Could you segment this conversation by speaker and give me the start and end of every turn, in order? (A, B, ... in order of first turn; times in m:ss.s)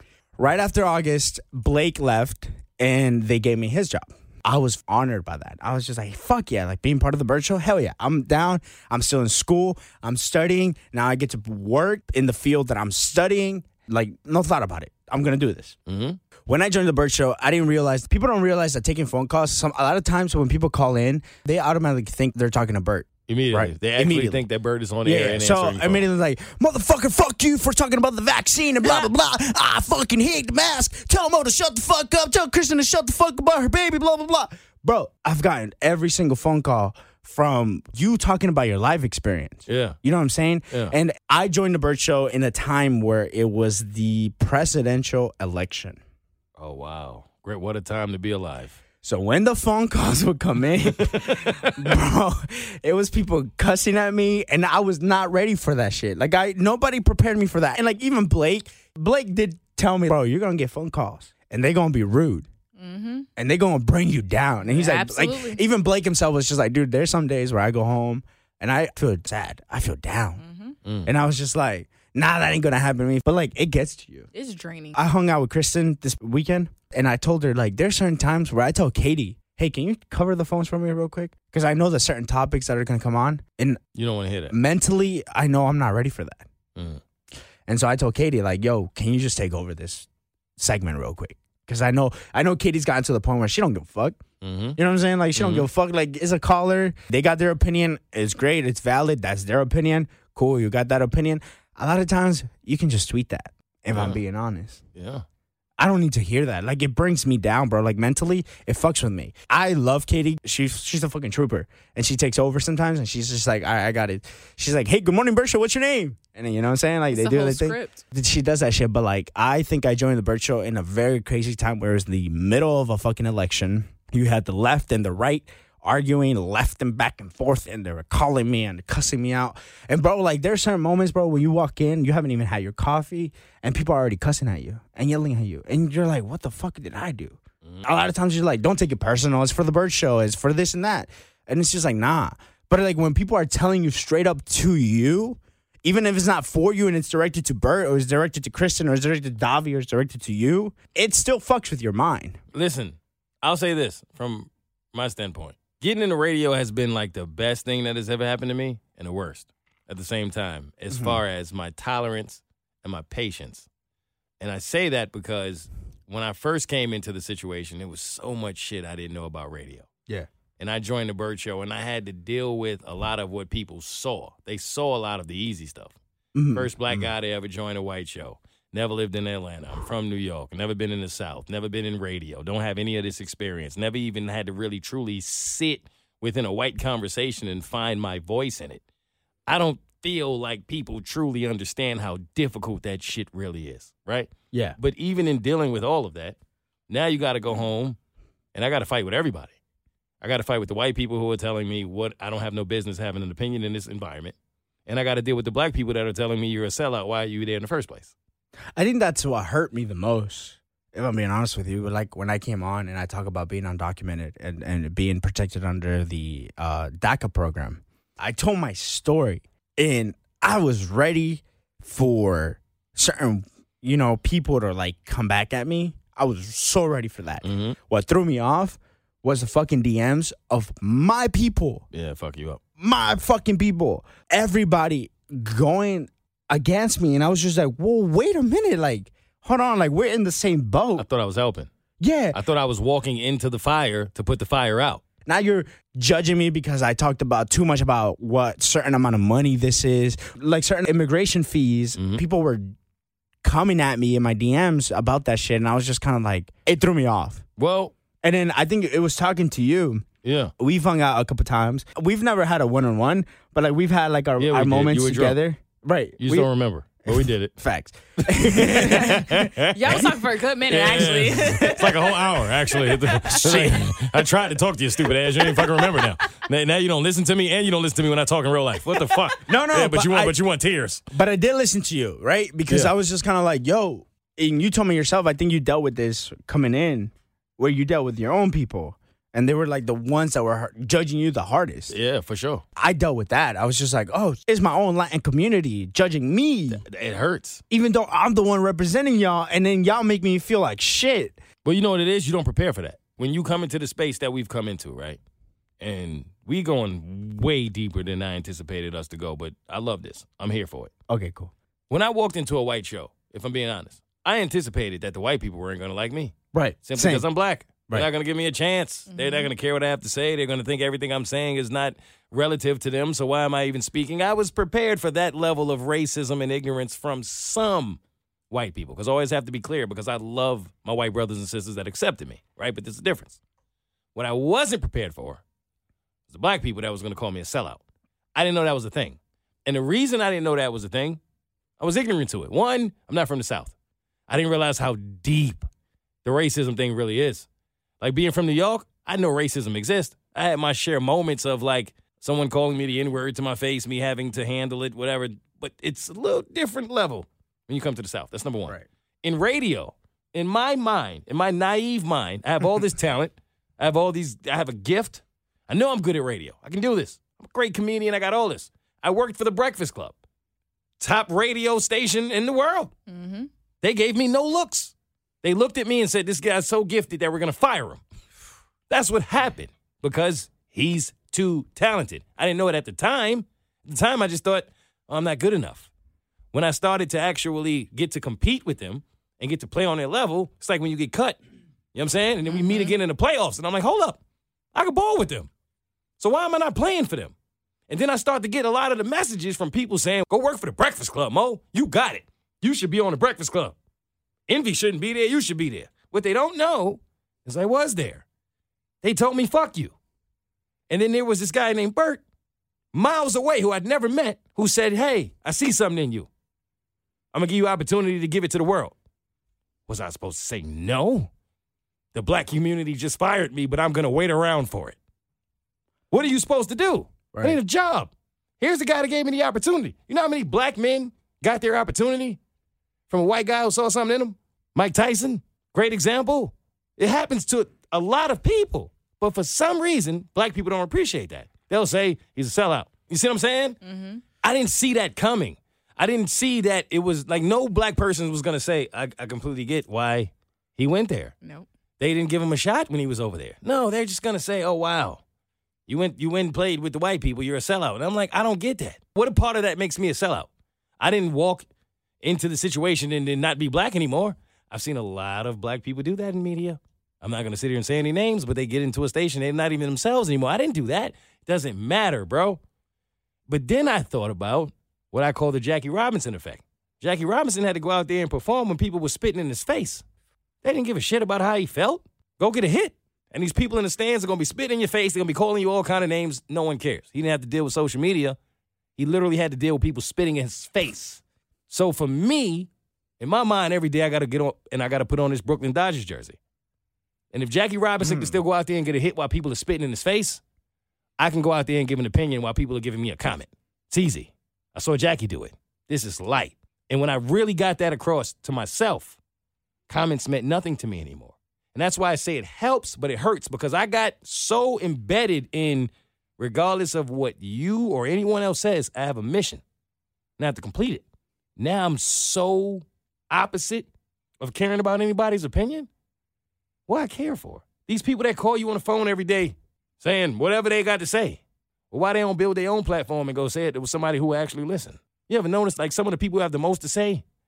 0:00.4-0:15.8 A
0:15.9-0:16.2 B
0:16.4-0:24.4 A
0:23.3-0:26.0 B
0:25.0-0:46.0 A
0:39.7-0:40.0 B
0:46.6-0:48.8 B
0:49.0-1:02.5 A
0:51.0-0:51.7 B
1:02.8-1:03.3 C
1:03.4-1:10.4 A
1:04.6-1:05.6 C
1:10.4-1:10.8 C
1:11.0-1:14.3 A
1:14.3-1:15.0 C
1:14.9-1:23.8 A
1:23.9-1:24.5 B
1:24.5-1:26.4 A
1:26.8-1:27.0 B
1:27.7-1:30.1 A
1:30.6-1:34.2 A
1:34.4-1:34.8 B
1:34.8-1:44.8 A
1:35.3-1:35.7 B
1:43.9-1:44.2 B
1:45.0-1:45.2 B
1:45.8-2:32.4 A
1:57.1-1:58.0 C
2:32.5-2:43.7 B
2:40.9-2:41.2 A
2:44.4-2:49.9 B
2:50.6-2:56.0 B
2:56.3-2:57.1 A
2:56.5-3:08.8 B
3:09.5-3:16.4 B
3:14.5-3:14.8 A
3:16.9-3:18.0 B
3:18.5-3:19.5 B
3:20.2-3:28.1 B
3:28.8-3:51.8 A
3:47.4-3:47.8 B
3:51.9-3:52.6 B
3:52.8-4:01.0 A
4:01.0-4:01.7 B
4:02.0-4:02.4 A
4:02.3-4:05.0 B
4:05.2-4:12.7 A
4:12.0-4:12.2 B
4:13.4-4:17.4 A
4:17.6-4:17.9 B
4:18.2-4:20.0 A
4:20.2-4:20.5 B
4:20.6-4:26.5 A
4:24.4-4:25.4 B
4:26.2-4:27.6 B
4:27.1-4:30.0 A
4:28.4-4:41.0 B
4:28.9-4:33.7 C
4:33.4-4:33.9 A
4:35.4-4:36.0 C
4:39.4-4:40.3 A
4:41.1-4:51.9 A
4:51.9-4:52.6 B
4:52.8-4:56.8 A
4:56.7-4:57.6 B
4:57.7-5:01.4 A
5:01.6-5:05.2 B
5:05.8-5:10.9 B
5:11.1-5:11.5 A
5:11.9-5:28.0 B
5:16.5-5:17.2 A
5:19.1-5:19.5 C
5:28.5-5:33.4 B
5:34.1-5:35.4 B
5:36.3-5:37.8 B
5:38.4-5:41.2 B
5:41.8-5:43.7 B
5:44.3-5:45.7 B
5:46.2-5:47.5 B
5:48.0-6:10.2 B
6:11.0-6:12.9 B
6:13.1-6:13.5 C
6:13.8-6:18.0 B
6:18.9-6:25.9 B
6:26.5-6:31.4 B
6:31.9-6:34.2 B
6:34.7-6:35.5 B
6:36.2-6:37.3 B
6:37.9-6:43.8 B
6:44.5-6:48.2 B
6:49.0-6:49.9 B
6:50.9-6:52.2 B
6:52.9-6:56.3 B
6:57.3-6:59.0 B
6:59.9-7:01.3 B
7:02.1-7:05.0 B
7:06.1-7:12.4 B
7:07.3-7:07.6 A
7:13.1-7:23.8 B
7:23.8-7:24.2 C
7:24.4-7:31.3 B
7:32.0-7:35.2 B
7:35.9-7:40.5 B
7:41.0-7:41.7 B
7:42.2-7:52.6 B
7:53.5-8:00.0 B
8:00.6-8:08.4 B
8:09.0-8:12.7 B
8:13.2-8:16.4 B
8:17.3-8:20.4 B
8:18.0-8:18.4 A
8:21.2-8:29.2 B
8:29.9-8:39.6 B
8:40.4-8:41.0 B
8:41.6-8:43.9 B
8:44.4-8:45.9 B
8:46.9-8:57.2 B